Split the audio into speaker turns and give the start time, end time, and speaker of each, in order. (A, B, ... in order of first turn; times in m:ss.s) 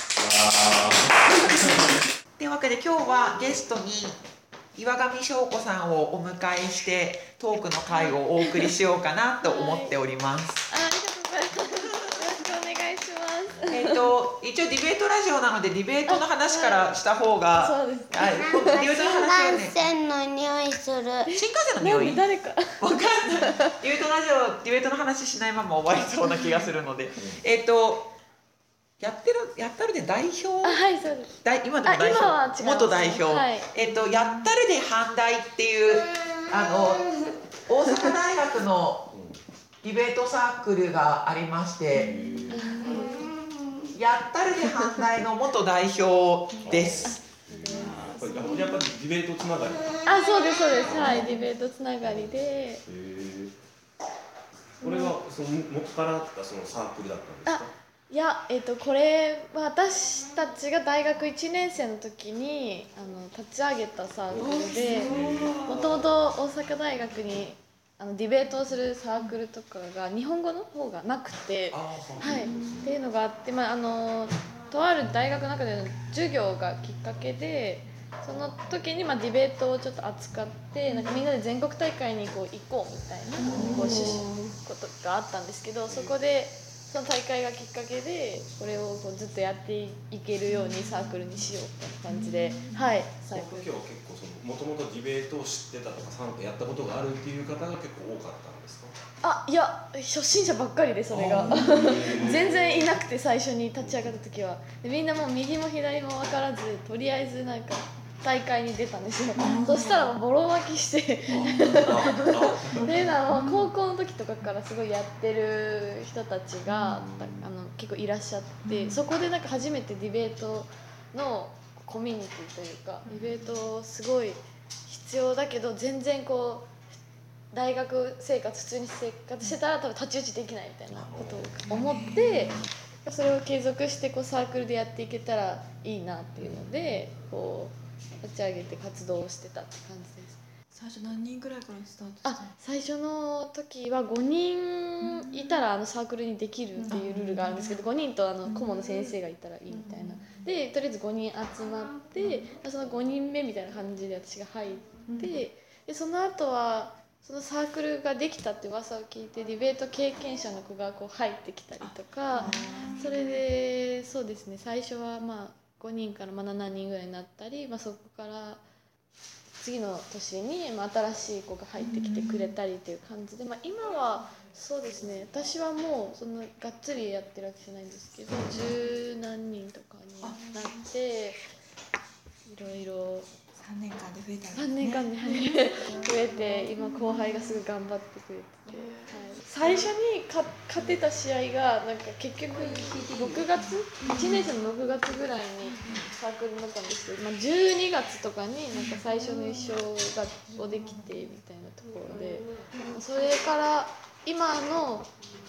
0:00.4-0:00.8 A
0:01.4-0:04.2 B
0:04.7-0:10.6 B
0:07.9-0:08.6 C
0:09.4-0:10.0 C
0:10.7-0:14.1 C
0:13.7-0:19.8 B
0:16.1-0:16.9 C
0:17.5-0:18.9 C
0:18.2-0:21.3 D
0:21.3-0:22.2 B
0:21.3-0:23.7 C
0:22.7-0:28.1 B
0:29.0-0:39.1 B
0:30.6-0:33.7 C
0:34.0-0:34.4 E
0:39.1-0:39.4 A
0:39.8-0:42.1 B
0:41.9-0:42.8 A
0:42.5-0:43.3 C
0:42.5-0:43.1 E
0:43.9-0:47.2 B
0:44.6-0:45.0 C
0:46.6-0:50.0 A
0:47.0-0:48.8 C
0:50.0-0:52.8 C
0:50.4-0:50.8 D
0:50.8-0:51.4 A
0:52.0-0:53.5 A
0:54.8-0:57.7 A
0:57.4-1:33.7 C
1:04.3-1:06.1 A
1:04.8-1:05.6 E
1:11.7-1:12.9 A
1:23.4-1:24.2 A
1:25.9-1:26.2 A
1:30.5-1:31.3 E
1:32.1-1:32.9 E
1:33.3-1:38.9 A
1:39.2-2:06.7 C
1:41.1-1:42.6 A
1:41.4-1:41.8 E
1:43.8-1:44.2 A
1:49.4-1:50.2 E
1:51.3-1:53.7 E
1:51.3-1:52.9 A
1:58.6-1:59.0 E
2:03.1-2:03.6 E
2:07.5-2:20.4 C
2:10.9-2:11.5 A
2:11.7-2:12.7 E
2:20.7-2:22.5 E
2:22.2-2:48.6 C
2:25.0-2:25.6 E
2:26.8-2:27.8 E
2:28.4-2:29.2 E
2:29.7-2:30.4 E
2:35.1-2:35.4 E
2:41.8-2:43.4 E
2:49.6-3:01.4 C
2:51.8-2:52.5 E
3:00.2-3:00.8 E
3:02.4-3:03.3 C
3:03.6-3:07.6 E
3:04.5-3:25.1 C
3:08.7-3:09.9 E
3:12.5-3:14.6 E
3:15.6-3:16.1 E
3:18.7-3:19.8 E
3:20.5-3:21.1 E